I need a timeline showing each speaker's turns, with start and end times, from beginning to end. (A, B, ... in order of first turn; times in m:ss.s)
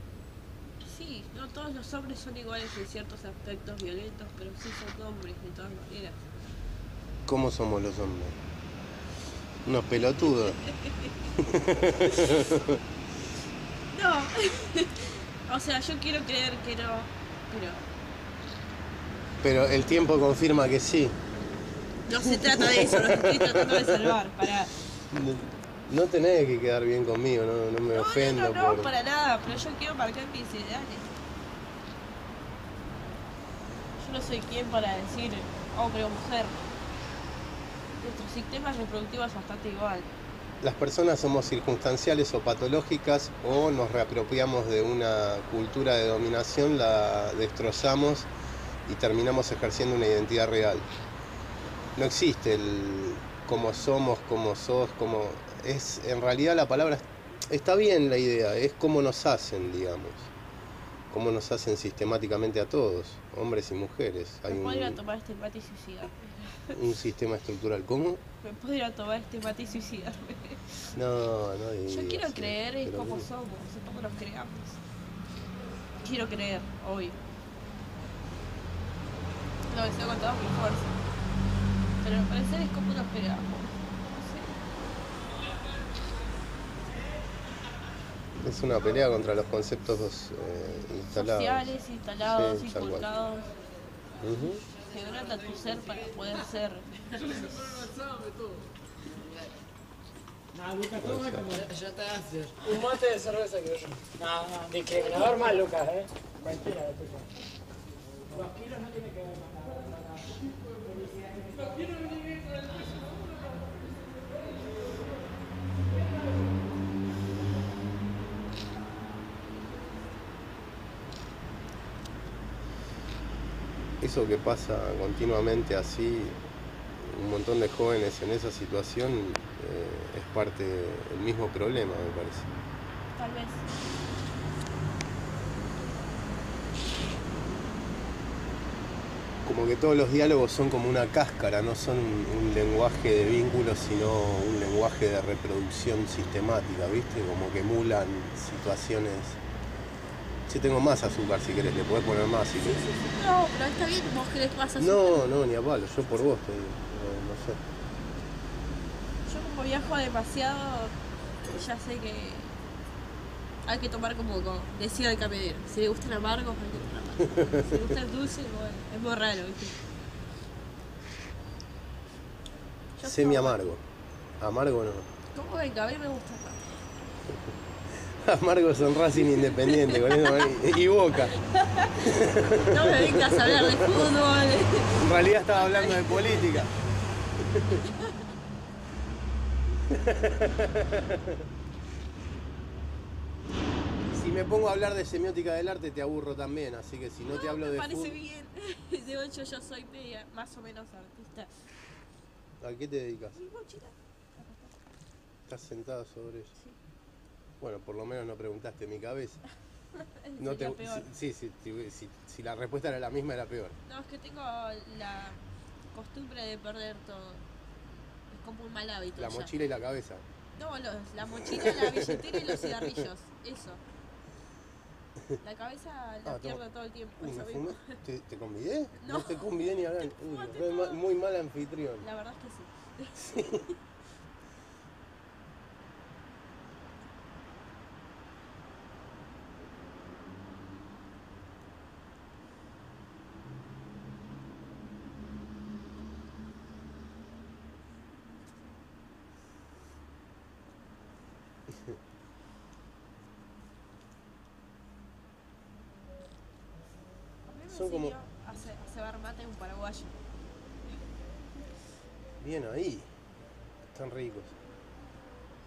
0:00.8-0:06.2 A
0:07.3-0:08.4 B
0:09.6-0:10.6 B
0:10.2-0:11.2 A
0:11.4-0:12.8 B
0:12.1-0:12.4 A
0:13.9-0:17.9 A
0:19.4-0:21.2 B
0:22.1-0:24.7 A
0:22.2-0:24.1 B
0:25.1-0:28.9 B
0:27.9-0:31.1 A
0:34.0-0:36.6 A
0:38.0-0:40.1 A
0:40.6-0:48.3 B
0:48.9-0:50.9 B
0:52.0-1:00.3 B
1:01.1-1:05.0 B
1:04.5-1:06.8 A
1:06.7-1:08.2 B
1:08.4-1:10.7 A
1:10.9-1:13.3 B
1:11.9-1:14.8 A
1:16.0-1:17.2 A
1:19.7-1:21.0 A
1:22.0-1:24.6 A
1:28.4-1:31.7 B
1:31.1-1:33.5 A
1:32.2-1:33.1 B
1:34.2-1:34.6 B
1:34.8-1:37.9 A
1:40.9-1:41.7 B
1:42.1-1:47.3 C
1:48.4-1:50.2 C
2:04.0-2:06.4 B
2:07.0-2:12.5 B
2:13.2-2:13.7 A
2:19.4-2:29.4 B
2:30.5-2:32.8 B
2:32.6-2:35.3 A
2:34.8-2:37.6 B
2:39.3-2:42.6 A
2:43.7-2:49.8 A
2:47.2-2:47.8 B
2:53.0-2:53.7 A
2:53.0-2:53.8 B
2:54.4-2:55.1 B
2:55.3-2:56.8 A
2:58.0-3:01.4 B
2:59.1-3:00.6 A
3:01.2-3:06.7 A
3:02.0-3:04.0 B
3:05.0-3:06.7 B
3:07.4-3:07.8 B
3:07.8-3:08.2 A
3:09.9-3:11.4 B
3:14.1-3:18.2 B
3:17.3-3:21.5 A
3:22.6-3:23.4 B
3:23.4-3:24.8 A
3:25.5-3:26.6 B
3:27.6-3:29.4 B
3:30.0-3:31.1 A
3:30.4-3:33.8 B
3:33.9-3:35.4 A
3:35.9-3:37.4 A
3:38.3-3:39.5 A
3:39.2-3:40.2 B
3:40.6-3:43.8 A
3:41.3-3:43.0 B
3:45.4-3:48.0 A
3:46.2-3:46.6 B
3:47.2-3:52.1 B
3:49.0-3:51.0 A
3:52.0-3:53.8 A
3:53.2-3:53.7 B
4:17.5-4:20.2 A
4:17.7-4:18.2 B
4:22.4-4:23.1 B
4:23.9-4:24.6 B